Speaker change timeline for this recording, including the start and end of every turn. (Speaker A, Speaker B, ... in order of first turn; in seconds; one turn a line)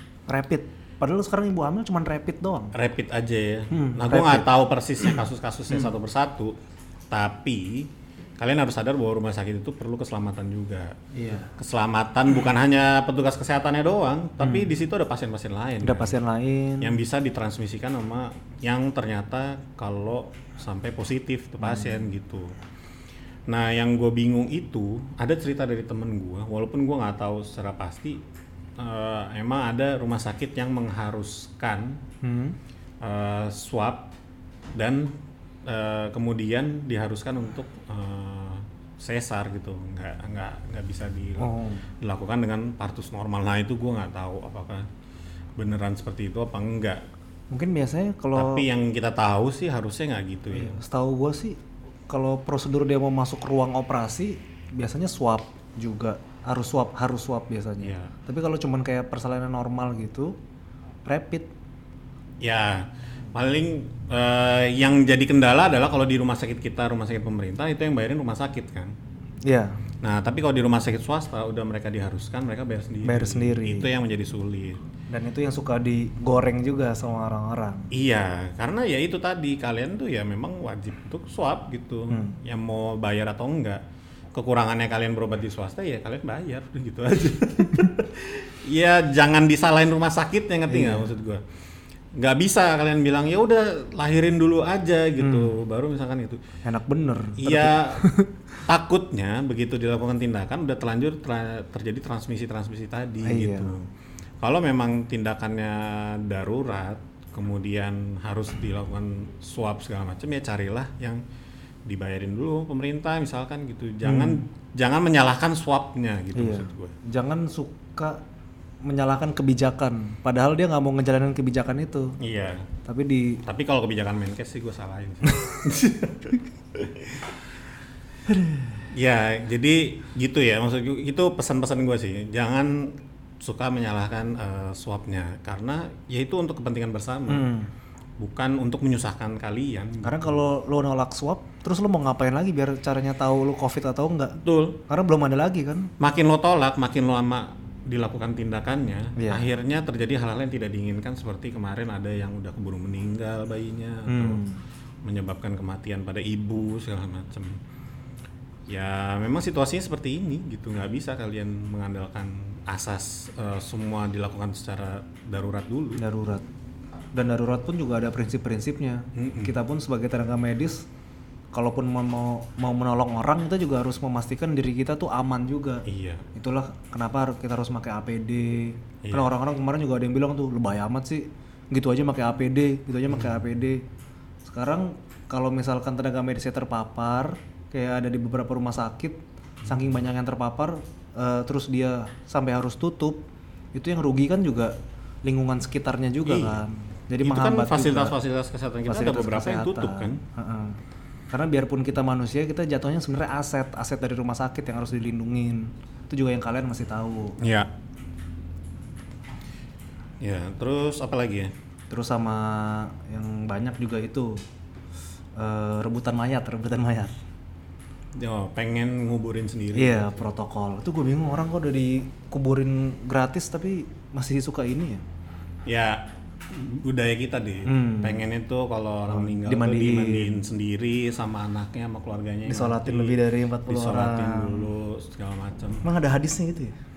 Speaker A: 0.3-2.7
Speaker B: 2.7-6.5
Speaker A: 3.7-4.5
Speaker B: 7.1-11.0
Speaker A: 11.1-11.5
Speaker B: 11.5-16.2
Speaker A: 14.4-14.7
Speaker A: 15.8-16.9
Speaker B: 16.8-22.6
Speaker A: 21.6-22.0
Speaker B: 23.5-28.2
Speaker B: 28.8-32.0
Speaker A: 32.2-32.6
Speaker B: 33.0-34.1
Speaker B: 34.8-44.9
Speaker A: 41.4-41.9
Speaker B: 45.6-47.0
Speaker A: 47.5-48.6
Speaker B: 48.3-50.8
Speaker A: 50.5-60.4
Speaker B: 57.8-58.1
Speaker A: 61.0-61.5
Speaker B: 62.4-69.0
Speaker A: 69.4-69.8
Speaker B: 70.0-74.8
Speaker A: 73.0-73.9
Speaker A: 75.1-77.9
Speaker B: 77.9-91.4
Speaker A: 82.1-82.4
Speaker A: 90.7-91.1
Speaker B: 92.1-96.4
Speaker A: 95.2-95.5
Speaker A: 96.6-98.3
Speaker B: 97.4-98.0
Speaker B: 98.7-103.9
Speaker A: 103.2-103.8
Speaker B: 104.4-111.2
Speaker B: 111.8-116.9
Speaker A: 114.0-114.4
Speaker A: 116.3-118.2
Speaker A: 118.8-122.2
Speaker B: 122.2-122.7
Speaker A: 122.8-123.4
Speaker B: 123.4-127.3
Speaker A: 128.3-128.8
Speaker B: 128.9-137.5
Speaker A: 137.3-137.7
Speaker B: 138.2-140.3
Speaker A: 140.0-145.9
Speaker B: 144.4-144.8
Speaker B: 146.0-154.4
Speaker A: 149.2-149.5
Speaker A: 154.1-154.6
Speaker B: 155.0-157.6
Speaker B: 158.7-166.0
Speaker A: 166.0-166.4
Speaker A: 167.1-170.9
Speaker B: 169.1-169.5
Speaker A: 171.5-183.8
Speaker B: 175.8-176.2
Speaker B: 179.0-179.3
Speaker B: 183.1-183.4
Speaker A: 184.4-193.2
Speaker A: 193.7-198.2
Speaker B: 196.2-196.6
Speaker B: 197.2-200.2
Speaker A: 198.8-200.8
Speaker A: 201.3-207.4
Speaker B: 207.4-207.7
Speaker B: 210.2-211.5
Speaker A: 211.9-214.4
Speaker A: 215.3-217.1
Speaker B: 218.2-220.2
Speaker A: 219.7-225.0
Speaker B: 225.7-235.8
Speaker A: 227.6-228.2
Speaker A: 229.1-230.4
Speaker A: 232.5-234.7
Speaker A: 235.8-236.7